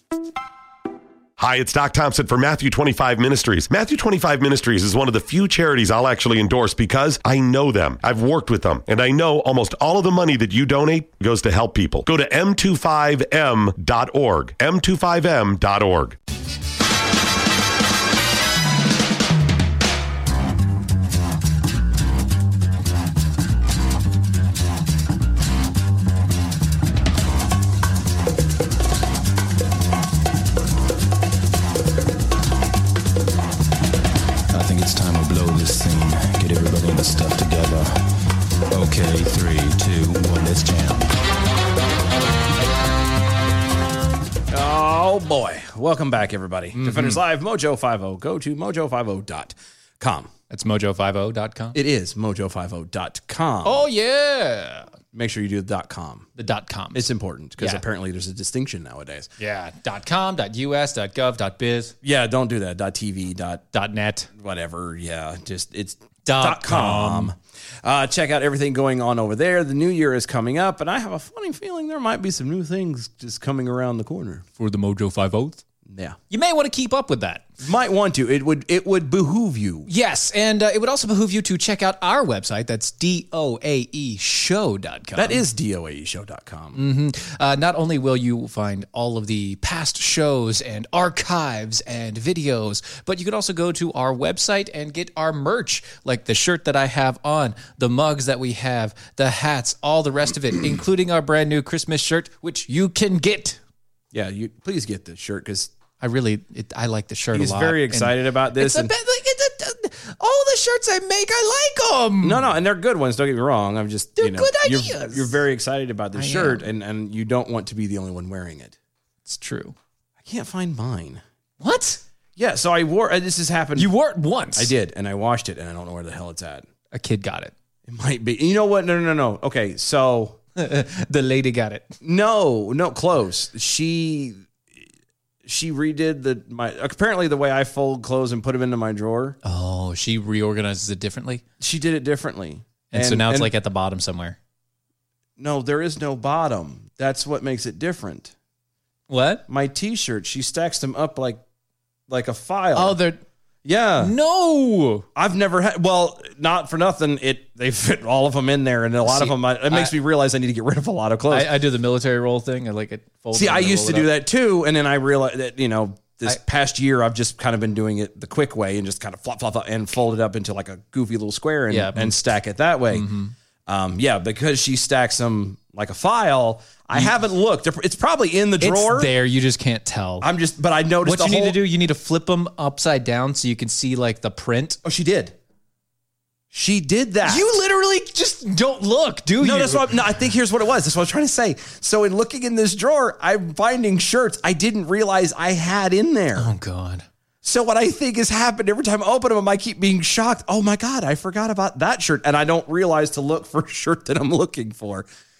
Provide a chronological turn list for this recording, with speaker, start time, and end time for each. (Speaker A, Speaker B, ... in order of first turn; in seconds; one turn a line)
Speaker A: 1.4-16.2
Speaker B: 34.5-38.1
Speaker B: 38.7-41.1
Speaker C: 44.5-50.3
Speaker D: 46.8-47.2
Speaker D: 50.5-51.8
Speaker C: 51.7-53.9
Speaker D: 53.6-54.9
Speaker C: 55.1-56.3
Speaker D: 56.4-57.1
Speaker C: 56.9-59.3
Speaker D: 59.4-61.9
Speaker C: 62.0-63.6
Speaker D: 63.7-64.3
Speaker C: 64.4-74.4
Speaker D: 66.2-67.3
Speaker D: 74.6-75.6
Speaker C: 75.9-76.2
Speaker D: 76.3-77.4
Speaker C: 77.6-79.9
Speaker D: 79.9-85.4
Speaker C: 85.2-86.8
Speaker D: 86.8-103.6
Speaker C: 104.1-105.7
Speaker D: 106.0-112.5
Speaker C: 107.3-108.9
Speaker C: 112.2-118.7
Speaker D: 114.2-115.3
Speaker D: 116.1-116.7
Speaker D: 119.2-119.7
Speaker C: 120.2-121.2
Speaker D: 121.6-122.0
Speaker C: 122.4-123.9
Speaker D: 123.8-124.7
Speaker C: 124.5-126.7
Speaker D: 126.9-127.5
Speaker C: 127.9-130.4
Speaker D: 130.6-131.9
Speaker C: 132.0-134.4
Speaker C: 135.4-139.4
Speaker D: 139.4-141.4
Speaker C: 141.6-143.5
Speaker D: 142.9-144.4
Speaker C: 145.4-148.3
Speaker D: 149.1-149.4
Speaker C: 149.5-151.4
Speaker C: 152.1-153.0
Speaker D: 152.7-153.2
Speaker C: 153.6-154.1
Speaker D: 154.0-155.0
Speaker C: 155.2-161.5
Speaker D: 159.0-159.9
Speaker D: 161.3-164.1
Speaker C: 163.3-173.1
Speaker D: 171.7-172.2
Speaker D: 172.9-173.3
Speaker C: 173.7-179.1
Speaker D: 178.6-180.3
Speaker C: 180.2-181.6
Speaker D: 181.0-184.8
Speaker C: 184.8-185.3
Speaker C: 186.5-187.4
Speaker D: 187.2-189.9
Speaker C: 189.4-196.5
Speaker D: 196.3-197.1
Speaker C: 197.4-205.1